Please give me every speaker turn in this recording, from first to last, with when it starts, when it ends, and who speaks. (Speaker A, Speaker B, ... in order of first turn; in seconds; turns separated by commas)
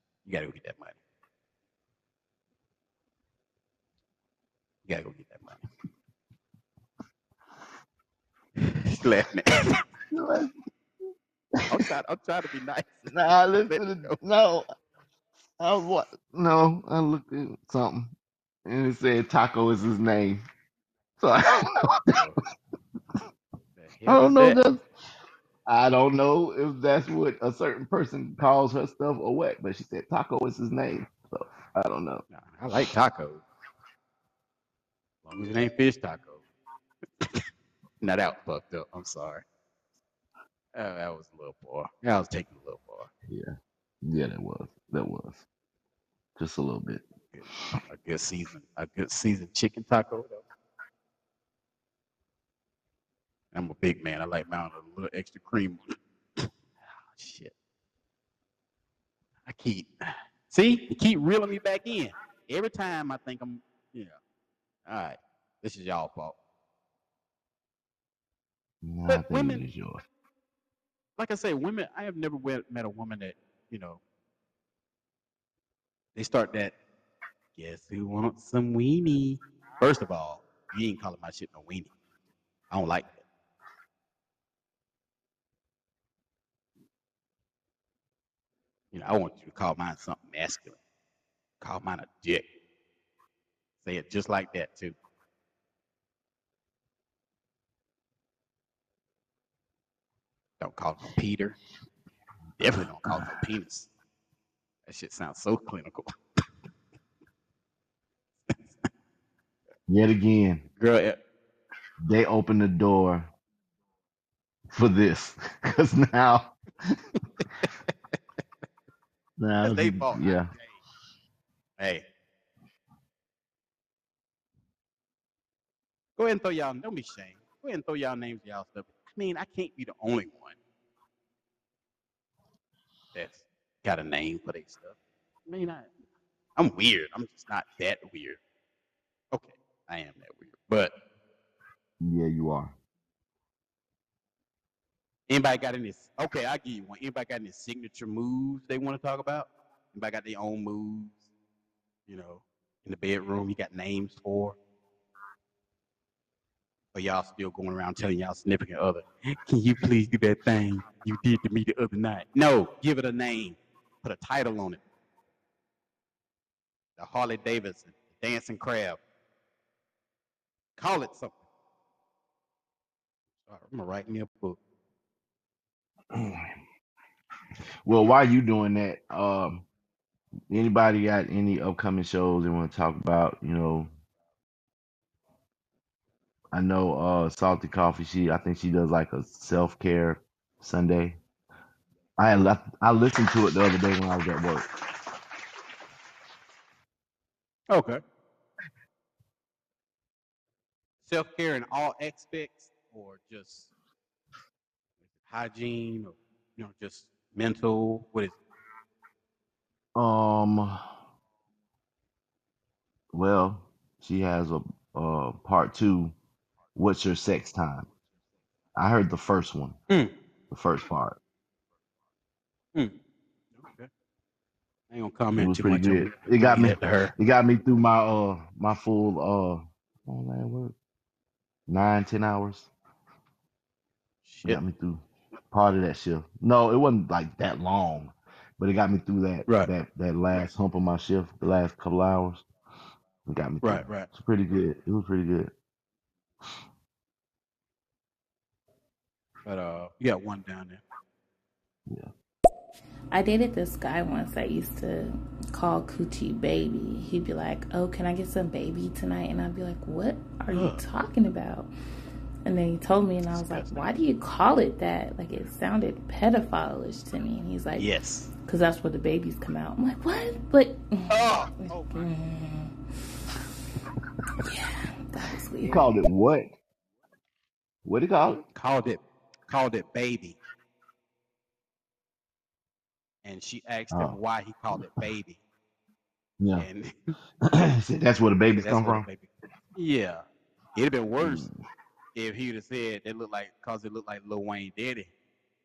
Speaker A: 0.2-1.0, Speaker A: 4.8-5.7, Speaker A: 8.6-9.7, Speaker B: 10.1-10.5, Speaker A: 11.7-14.2, Speaker B: 13.1-14.7, Speaker B: 15.6-18.1, Speaker B: 18.6-20.4, Speaker B: 21.2-22.2, Speaker A: 22.1-22.4, Speaker A: 23.6-24.6, Speaker B: 24.1-24.8, Speaker B: 25.6-32.2, Speaker A: 32.3-33.4, Speaker A: 35.2-36.4, Speaker A: 38.0-39.4, Speaker A: 40.7-43.1, Speaker B: 43.2-45.4, Speaker B: 46.4-47.0, Speaker A: 47.3-50.4, Speaker A: 53.5-56.5, Speaker A: 57.0-57.5, Speaker A: 59.5-64.2, Speaker A: 64.8-66.3, Speaker B: 68.8-70.0, Speaker A: 69.1-69.7, Speaker A: 71.2-74.0, Speaker A: 76.1-76.7, Speaker A: 77.5-81.9, Speaker A: 82.7-83.2, Speaker A: 88.9-90.8, Speaker A: 91.6-92.5, Speaker A: 93.8-95.0, Speaker A: 100.6-101.6, Speaker A: 102.6-103.9, Speaker B: 102.6-103.4, Speaker A: 104.9-106.1, Speaker A: 108.5-108.9, Speaker B: 109.9-110.6, Speaker A: 110.8-111.2, Speaker B: 112.0-113.3, Speaker B: 114.7-116.9, Speaker B: 119.4-120.5, Speaker A: 119.6-120.8, Speaker A: 121.8-122.0, Speaker A: 126.2-130.6, Speaker A: 133.1-134.9, Speaker A: 135.5-135.9, Speaker A: 136.6-138.4, Speaker A: 139.3-140.9, Speaker B: 142.0-142.7, Speaker A: 145.3-151.3, Speaker A: 152.1-154.6, Speaker A: 156.9-164.8, Speaker A: 167.0-169.0, Speaker A: 170.8-171.4, Speaker A: 173.4-174.6, Speaker B: 176.1-176.6, Speaker B: 177.8-179.6, Speaker B: 180.5-183.9, Speaker B: 186.5-191.2, Speaker B: 192.2-194.7, Speaker A: 197.7-198.0, Speaker A: 201.0-203.7, Speaker A: 205.2-208.4, Speaker B: 209.9-210.8, Speaker B: 213.1-216.1, Speaker B: 216.7-217.9, Speaker B: 218.8-219.8, Speaker B: 220.5-221.2, Speaker A: 223.5-223.9, Speaker A: 224.9-227.1, Speaker B: 225.3-230.7, Speaker B: 231.7-232.7, Speaker A: 234.2-234.6, Speaker B: 234.4-242.5, Speaker B: 243.2-245.5, Speaker A: 243.6-244.1, Speaker A: 249.4-250.8, Speaker C: 253.1-261.7, Speaker A: 260.5-260.8, Speaker C: 262.4-267.9, Speaker A: 263.3-263.9, Speaker A: 267.8-268.3, Speaker C: 268.4-272.7, Speaker A: 271.1-272.1, Speaker C: 274.4-275.9, Speaker B: 275.6-276.5, Speaker B: 277.8-278.4, Speaker A: 278.5-280.4, Speaker A: 283.2-285.4, Speaker B: 283.9-284.2, Speaker B: 284.7-285.0, Speaker B: 286.4-286.7, Speaker A: 286.6-287.1, Speaker B: 287.4-289.1, Speaker A: 288.5-290.2, Speaker A: 290.8-291.5, Speaker B: 291.2-291.5, Speaker A: 292.1-295.1